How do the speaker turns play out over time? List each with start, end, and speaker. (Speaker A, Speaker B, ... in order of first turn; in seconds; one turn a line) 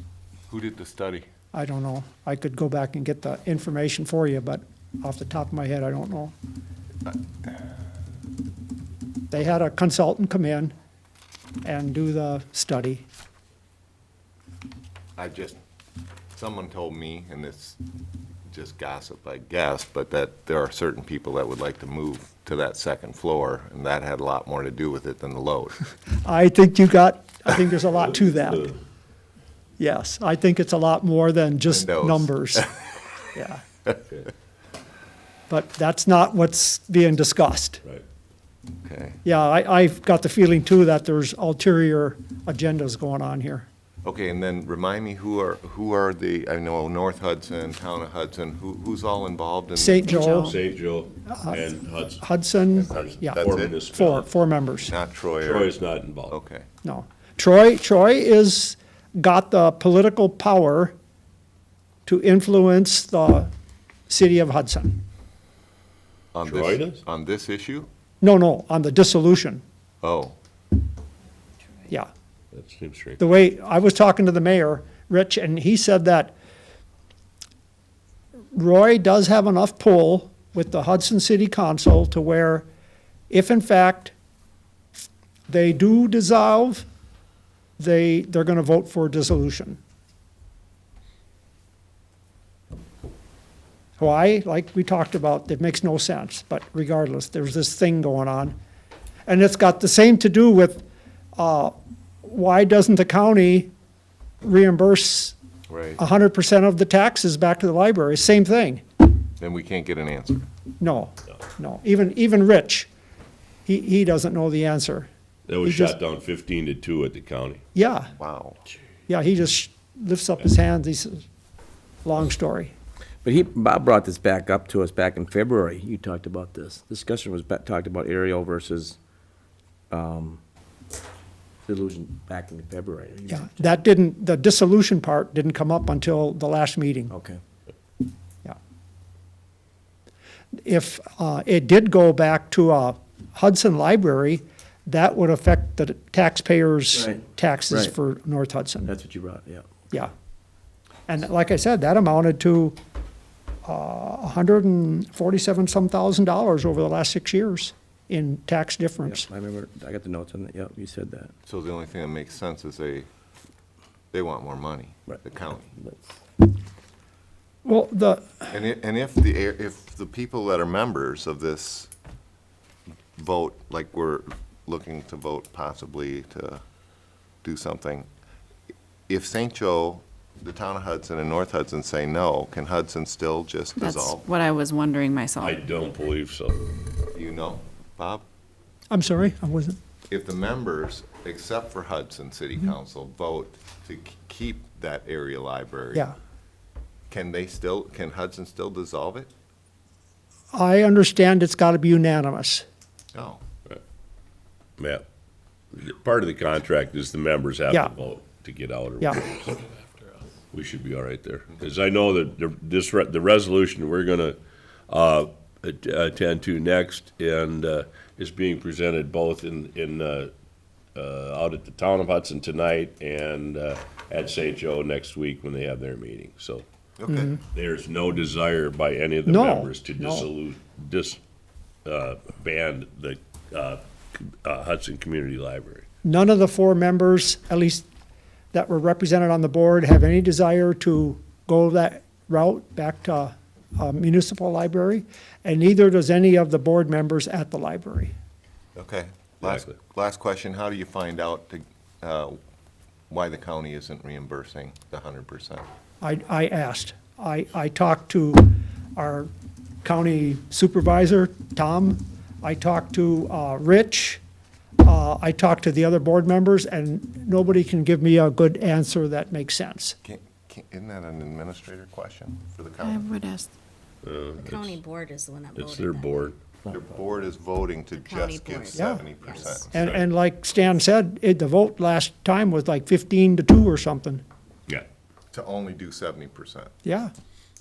Speaker A: 0.5-1.2
Speaker B: 1.5-6.3
Speaker B: 9.3-10.7
Speaker B: 11.6-13.1
Speaker A: 15.2-15.6
Speaker A: 16.3-17.8
Speaker A: 18.5-25.8
Speaker B: 26.2-28.7
Speaker C: 27.9-28.7
Speaker B: 29.8-32.7
Speaker A: 31.6-32.7
Speaker B: 33.3-33.6
Speaker B: 35.5-37.8
Speaker A: 38.8-39.2
Speaker B: 39.2-43.7
Speaker A: 44.0-50.2
Speaker B: 49.8-50.5
Speaker D: 50.1-50.4
Speaker C: 50.3-52.2
Speaker B: 51.3-54.9
Speaker A: 52.8-53.8
Speaker C: 52.9-54.3
Speaker A: 54.8-55.7
Speaker C: 55.4-56.4
Speaker A: 56.3-56.7
Speaker B: 56.8-61.0
Speaker B: 62.0-63.5
Speaker B: 64.1-65.0
Speaker A: 66.3-67.9
Speaker C: 66.5-67.0
Speaker B: 68.2-69.6
Speaker A: 70.0-70.4
Speaker C: 72.5-73.2
Speaker B: 73.2-76.3
Speaker B: 78.5-82.7
Speaker B: 83.3-84.1
Speaker B: 85.5-86.8
Speaker B: 87.8-89.8
Speaker B: 94.0-98.6
Speaker B: 99.3-100.8
Speaker B: 101.4-103.7
Speaker B: 104.4-105.3
Speaker A: 105.7-106.0
Speaker B: 106.0-108.8
Speaker A: 109.4-110.4
Speaker B: 110.8-112.9
Speaker B: 113.7-115.1
Speaker C: 115.5-117.6
Speaker B: 115.6-116.0
Speaker B: 117.7-118.1
Speaker A: 118.2-118.6
Speaker B: 119.1-121.2
Speaker B: 122.0-122.7
Speaker E: 123.2-129.0
Speaker E: 129.9-130.4
Speaker E: 131.7-133.6
Speaker B: 133.3-137.1
Speaker E: 137.1-137.4
Speaker B: 140.6-148.9
Speaker E: 146.9-147.9
Speaker E: 148.8-149.7
Speaker B: 151.1-152.8
Speaker B: 153.6-159.3
Speaker E: 159.0-161.3
Speaker A: 161.5-163.1
Speaker A: 164.1-165.7
Speaker E: 165.8-166.2
Speaker B: 167.6-168.5
Speaker A: 168.5-171.9
Speaker A: 173.2-176.6
Speaker A: 177.4-178.1
Speaker A: 179.1-184.3
Speaker D: 183.8-185.6
Speaker C: 185.4-186.6
Speaker A: 187.1-188.2
Speaker B: 188.9-189.8
Speaker A: 190.1-196.1
Speaker A: 197.1-199.3
Speaker B: 200.5-202.7
Speaker A: 203.1-203.4
Speaker C: 204.8-205.0
Speaker C: 205.7-209.7
Speaker C: 210.5-214.4
Speaker C: 214.9-220.3
Speaker C: 220.9-226.6
Speaker A: 227.0-227.3
Speaker B: 227.1-227.4
Speaker C: 227.5-231.2
Speaker B: 229.2-230.3
Speaker C: 231.8-235.8
Speaker B: 236.0-237.8
Speaker B: 238.5-248.1
Speaker A: 248.8-252.4
Speaker C: 249.4-249.7
Speaker A: 253.1-255.7
Speaker B: 256.0-259.3
Speaker B: 259.8-264.2
Speaker B: 264.8-270.0
Speaker A: 270.0-273.1
Speaker D: 272.8-273.5
Speaker C: 274.0-274.8
Speaker F: 274.4-276.3
Speaker C: 275.6-276.4
Speaker A: 276.7-280.0
Speaker F: 277.9-279.6
Speaker B: 278.8-279.1
Speaker B: 279.7-284.2
Speaker A: 285.3-286.7
Speaker B: 286.8-287.1